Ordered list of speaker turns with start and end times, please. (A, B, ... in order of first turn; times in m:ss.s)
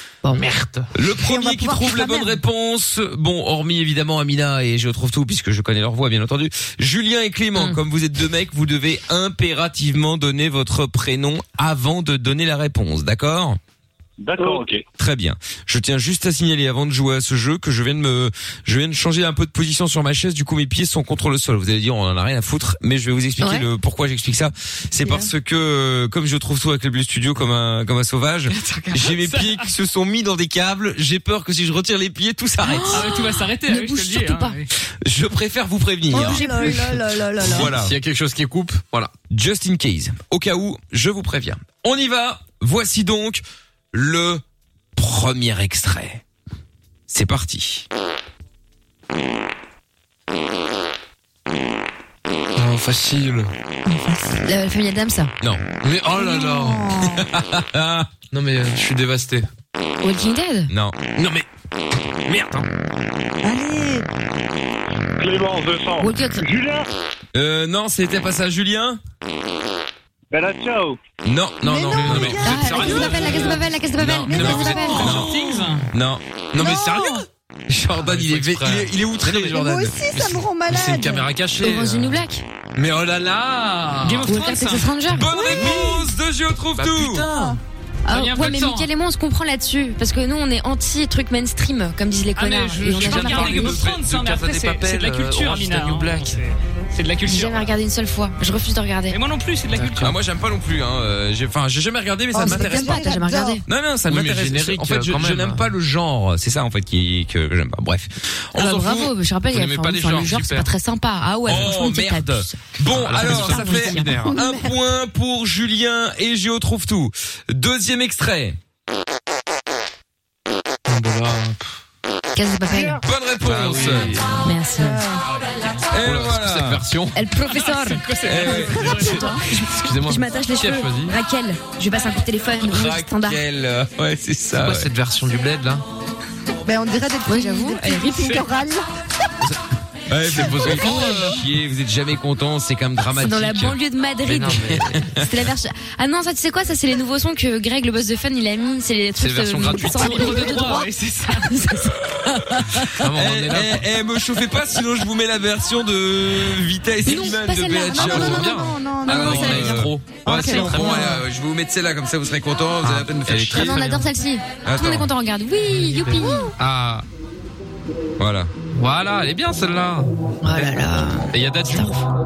0:00.3-0:00.9 A
0:00.9-0:13.6 B
0:01.1-0:02.4 C
0:14.2-0:14.8 D
0:15.0-0:33.1 B
0:23.4-0:23.7 E
0:25.0-0:25.3 C
0:28.6-0:29.7 F
0:32.6-0:34.6 E
0:32.9-0:34.7 F
0:34.8-0:36.9 B
0:36.1-0:37.7 C
0:36.1-0:37.0 E
0:37.4-0:38.0 B
0:37.4-0:39.1 A
0:39.3-0:44.4 B
0:45.0-0:46.2 B
0:47.1-0:47.8 B
0:52.6-0:53.5 A
0:53.8-0:54.4 C
0:54.4-0:55.3 E
0:55.8-0:56.9 A
0:56.1-0:57.2 C
0:57.1-0:58.1 B
0:58.3-0:59.5 A
1:00.0-1:00.7 E
1:00.7-1:01.0 B
1:01.1-1:01.4 A
1:02.2-1:02.6 A
1:03.4-1:04.0 C
1:05.2-1:06.8 D
1:06.0-1:06.4 E
1:07.3-1:09.0 B
1:10.3-1:11.0 D
1:11.2-1:13.1 B
1:11.6-1:15.0 C
1:11.9-1:13.4 A
1:12.4-1:15.2 E
1:14.1-1:15.4 A
1:14.2-1:16.8 B
1:15.0-1:15.9 F
1:16.6-1:17.2 A
1:16.6-1:17.2 C
1:17.7-1:19.9 B
1:17.9-1:22.2 A
1:19.5-1:21.3 C
1:21.6-1:22.4 E
1:22.8-1:24.3 A
1:24.0-1:25.0 F
1:24.2-1:25.3 E
1:25.1-1:27.3 B
1:25.4-1:26.1 C
1:25.5-1:25.8 A
1:26.8-1:27.6 A
1:27.2-1:27.6 C
1:28.0-1:33.8 E
1:28.1-1:28.9 F
1:32.4-1:37.7 F
1:32.9-1:36.4 A
1:37.2-1:39.2 E
1:39.1-1:40.1 F
1:39.8-1:40.1 A
1:40.0-1:43.0 B
1:42.3-1:43.6 C
1:42.4-1:43.6 E
1:43.7-1:49.1 B
1:44.1-1:45.7 A
1:48.5-1:54.1 E
1:49.5-1:50.7 A
1:51.4-1:58.6 B
1:52.9-1:54.4 A
1:54.1-1:54.8 C
2:00.8-2:01.7 A
2:02.3-2:03.0 E
2:03.0-2:04.2 B
2:03.4-2:04.5 A
2:04.4-2:05.0 E
2:04.7-2:05.2 C
2:05.9-2:06.8 B
2:06.0-2:07.2 A
2:07.1-2:13.4 E
2:07.4-2:09.4 F
2:08.2-2:08.9 B
2:08.8-2:09.4 C
2:09.6-2:11.2 A
2:12.6-2:14.9 B
2:14.6-2:15.8 A
2:16.6-2:18.9 C
2:17.2-2:18.4 E
2:20.1-2:23.8 B
2:20.3-2:21.4 A
2:23.1-2:33.0 E
2:24.2-2:25.0 A
2:24.8-2:25.3 B
2:29.2-2:30.5 A
2:29.8-2:31.5 F
2:32.1-2:38.5 B
2:32.9-2:33.8 A
2:37.0-2:38.4 E
2:37.9-2:41.2 C
2:38.0-2:41.1 A
2:39.0-2:43.8 B
2:40.4-2:41.1 E
2:42.8-2:44.0 A
2:43.5-2:46.5 E
2:44.6-2:45.1 B
2:45.7-2:47.0 A
2:48.2-2:48.5 B
2:48.7-2:50.7 A
2:50.4-2:52.0 E
2:51.3-2:52.0 A